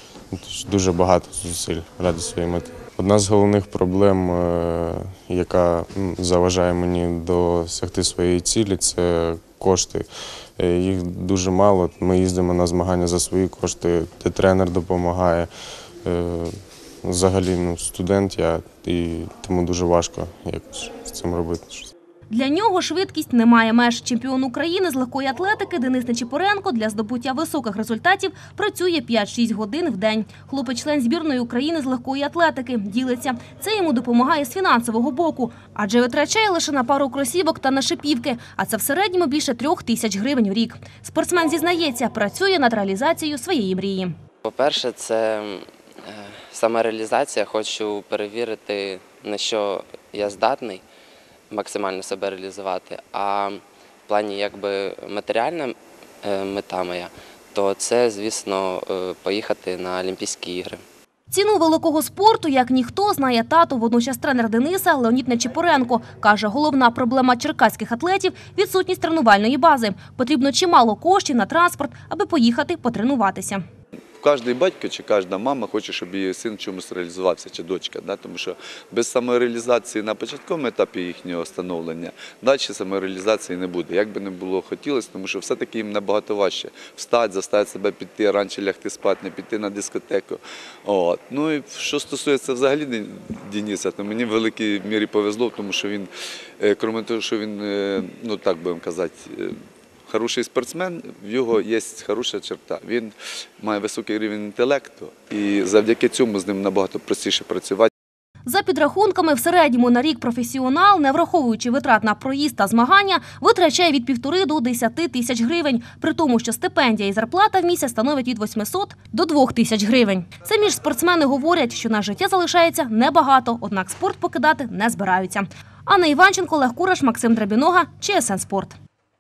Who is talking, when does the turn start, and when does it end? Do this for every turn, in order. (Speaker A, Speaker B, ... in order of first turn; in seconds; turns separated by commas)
Speaker A: 0.3-15.5, Speaker A: 16.0-21.9, Speaker B: 22.3-44.1, Speaker C: 44.5-50.8, Speaker C: 51.5-60.8, Speaker B: 61.3-73.6, Speaker D: 74.2-96.1, Speaker D: 96.6-99.6, Speaker D: 100.1-107.9, Speaker B: 108.5-128.8